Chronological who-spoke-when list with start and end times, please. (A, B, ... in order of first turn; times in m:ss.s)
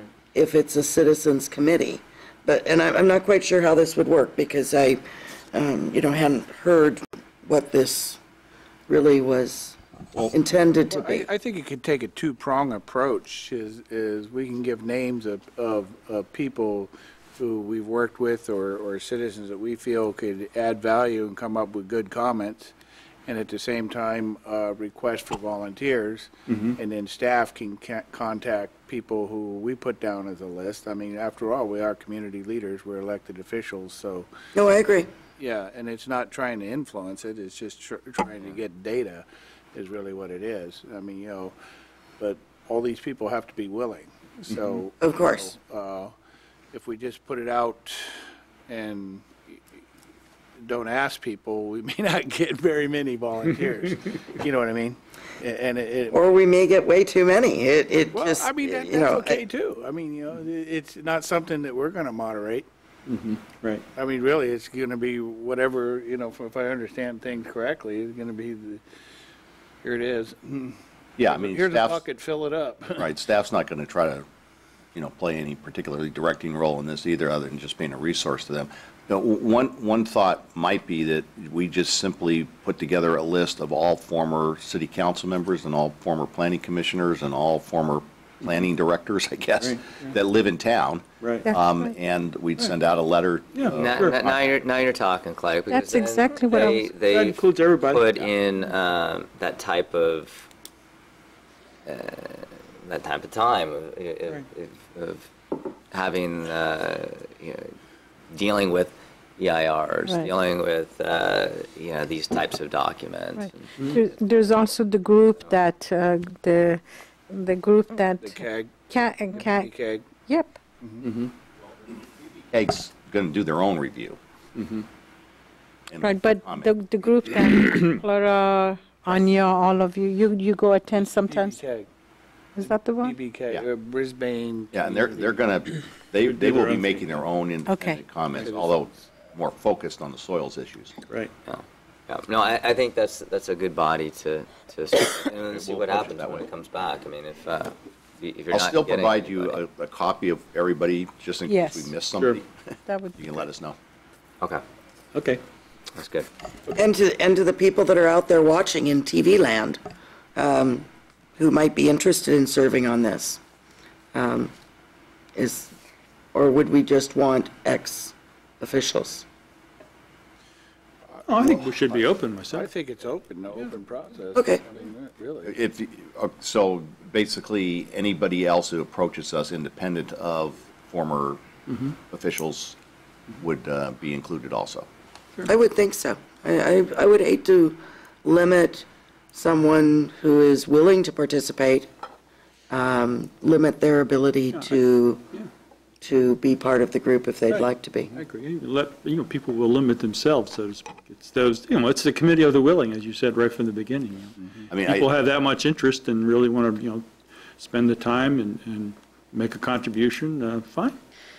0:00.3-0:08.2 A
0:08.9-0:11.2 A
0:10.9-0:22.7 B
0:23.3-0:34.2 B
0:26.5-0:26.8 C
0:34.5-0:35.1 A
0:35.4-0:41.5 B
0:42.2-0:46.1 B
0:45.0-0:45.5 A
0:46.7-0:48.0 B
0:48.7-0:49.2 B
0:50.6-0:56.2 B
0:56.1-0:59.4 A
0:58.1-1:02.7 B
1:03.1-1:03.8 C
1:04.0-1:08.8 B
1:09.8-1:10.8 B
1:11.2-1:12.0 D
1:11.3-1:13.0 B
1:13.0-1:14.2 D
1:14.9-1:34.6 D
1:29.6-1:30.1 C
1:31.2-1:31.5 C
1:33.5-1:34.2 C
1:33.7-1:40.5 E
1:35.7-1:36.8 F
1:36.4-1:38.3 C
1:41.8-1:45.3 E
1:45.9-1:47.7 E
1:48.3-1:53.7 E
1:53.9-1:59.7 F
1:58.2-2:00.1 B
2:00.2-2:00.6 F
2:00.8-2:01.1 B
2:01.0-2:01.3 C
2:02.5-2:04.2 D
2:04.6-2:04.8 C
2:05.9-2:06.7 D
2:06.0-2:11.6 F
2:11.3-2:11.8 B
2:12.6-2:13.1 F
2:13.0-2:15.3 B
2:14.7-2:20.9 D
2:16.2-2:17.2 C
2:17.7-2:18.0 F
2:18.4-2:18.7 B
2:21.4-2:29.6 E
2:25.5-2:26.5 D
2:28.5-2:33.8 D
2:31.5-2:32.0 F
2:32.1-2:32.4 C
2:32.9-2:33.2 F
2:35.1-2:35.4 C
2:35.9-2:36.3 E
2:36.7-2:39.8 A
2:40.4-2:40.8 A
2:41.4-2:43.4 A
2:44.1-2:44.5 A
2:45.4-2:45.7 A
2:46.3-2:49.2 A
2:51.2-2:52.7 C
2:52.5-2:55.6 B
2:54.3-2:54.6 A
2:55.4-3:01.4 D
3:01.7-3:01.9 C
3:02.0-3:02.8 D
3:03.4-3:04.9 D
3:05.4-3:11.9 A
3:12.7-3:15.2 A
3:16.0-3:18.1 A
3:17.5-3:27.0 C
3:24.7-3:25.1 D
3:27.6-3:31.0 C